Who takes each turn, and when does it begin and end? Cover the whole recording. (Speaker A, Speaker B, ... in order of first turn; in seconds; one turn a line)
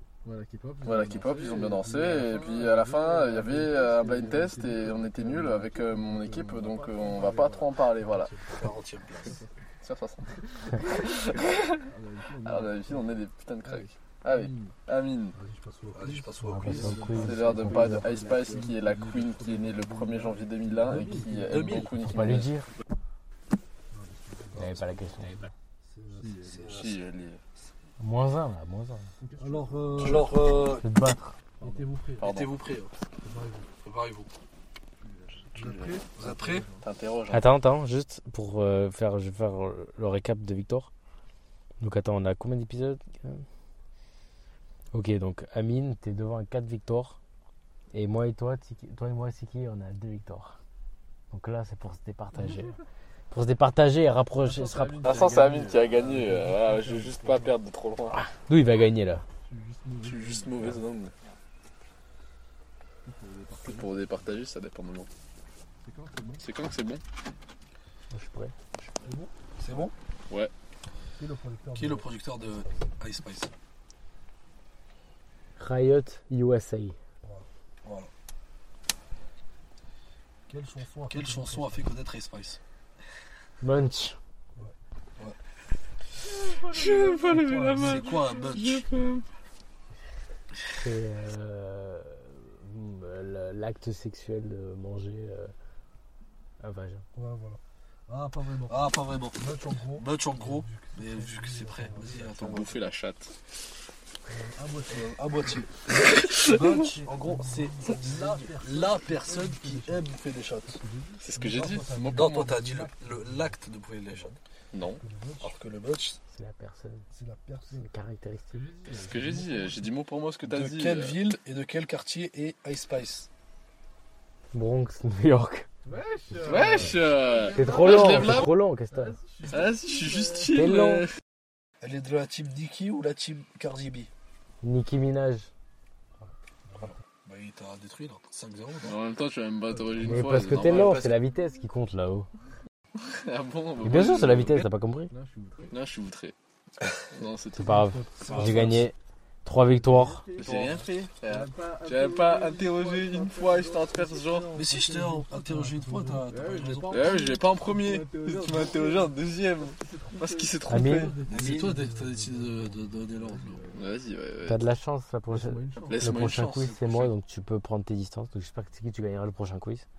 Speaker A: 0.2-9.6
Speaker B: 0.8-8.3
Speaker C: 8.5-9.4
Speaker B: 9.8-11.8
Speaker A: 10.3-14.8
Speaker B: 12.4-15.4
Speaker D: 15.3-18.7
Speaker C: 15.9-17.2
Speaker E: 16.4-18.1
Speaker A: 16.6-22.0
Speaker B: 17.1-22.5
Speaker C: 20.9-21.9
Speaker D: 21.0-21.3
Speaker E: 22.0-22.7
Speaker D: 23.9-26.8
Speaker E: 24.6-25.5
Speaker A: 26.1-26.8
Speaker C: 26.3-27.0
Speaker B: 26.7-27.4
Speaker E: 28.0-29.1
Speaker A: 29.2-30.3
Speaker D: 29.4-30.3
Speaker C: 29.9-30.9
Speaker B: 30.0-30.3
Speaker E: 30.7-31.4
Speaker A: 31.6-31.9
Speaker D: 31.6-32.2
Speaker C: 32.2-32.9
Speaker B: 32.2-32.5
Speaker D: 33.2-33.7
Speaker C: 33.8-34.3
Speaker A: 35.0-36.9
Speaker C: 35.6-36.7
Speaker B: 35.6-36.1
Speaker D: 36.1-36.6
Speaker B: 36.8-37.5
Speaker E: 37.3-40.9
Speaker E: 41.8-43.5
Speaker E: 44.9-47.2
Speaker E: 47.9-50.6
Speaker E: 51.3-52.8
Speaker A: 52.4-52.8
Speaker E: 53.3-55.1
Speaker A: 54.4-57.6
Speaker B: 55.0-58.2
Speaker E: 58.1-59.3
Speaker A: 59.4-60.9
Speaker B: 60.0-61.1
Speaker A: 63.0-64.4
Speaker B: 63.6-65.1
Speaker A: 65.8-66.5
Speaker B: 66.4-67.0
Speaker E: 68.1-68.5
Speaker D: 69.0-69.3
Speaker C: 69.6-69.9
Speaker D: 71.2-72.8
Speaker C: 71.7-73.5
Speaker E: 75.6-77.0
Speaker C: 77.2-78.1
Speaker D: 80.5-81.9
Speaker C: 81.1-82.6
Speaker E: 83.6-84.2
Speaker C: 84.6-85.4
Speaker B: 86.3-89.3
Speaker A: 86.5-88.0
Speaker C: 87.4-88.9
Speaker E: 90.8-95.5
Speaker E: 96.6-97.1
Speaker D: 97.2-97.6
Speaker D: 98.1-98.8
Speaker C: 98.7-102.8
Speaker D: 99.4-102.7
Speaker B: 102.3-103.3
Speaker D: 104.3-105.6
Speaker C: 104.9-110.8
Speaker B: 106.1-106.8
Speaker D: 106.4-109.9
Speaker A: 109.3-110.0
Speaker A: 110.8-113.2
Speaker B: 111.2-112.4
Speaker D: 111.4-113.3
Speaker C: 112.1-114.4
Speaker B: 114.7-115.0
Speaker D: 115.0-115.5
Speaker C: 115.4-116.2
Speaker E: 116.3-117.1
Speaker D: 117.1-117.9
Speaker E: 117.7-118.7
Speaker A: 118.5-119.9
Speaker B: 118.9-121.3
Speaker C: 120.4-123.3
Speaker E: 124.5-125.7
Speaker A: 125.8-130.6
Speaker B: 126.4-128.5
Speaker E: 127.5-129.2
Speaker B: 129.5-131.1
Speaker E: 130.5-131.1
Speaker C: 131.8-134.1
Speaker E: 134.6-135.5
Speaker C: 136.8-139.0
Speaker B: 138.8-141.1
Speaker A: 139.7-140.9
Speaker E: 140.0-142.3
Speaker B: 143.0-144.7
Speaker E: 143.8-145.1
Speaker A: 145.1-145.8
Speaker B: 145.7-146.3
Speaker B: 147.1-148.8
Speaker E: 147.5-150.3
Speaker C: 148.2-148.8
Speaker A: 148.2-148.8
Speaker A: 149.6-154.7
Speaker B: 150.4-154.6
Speaker C: 154.6-157.1
Speaker D: 154.6-156.3
Speaker A: 156.2-160.9
Speaker B: 156.9-161.3
Speaker E: 160.7-161.2
Speaker D: 160.9-163.1
Speaker C: 161.3-163.6
Speaker A: 163.2-164.0
Speaker B: 163.7-164.7
Speaker E: 164.4-169.9
Speaker A: 165.3-166.4
Speaker B: 165.8-167.1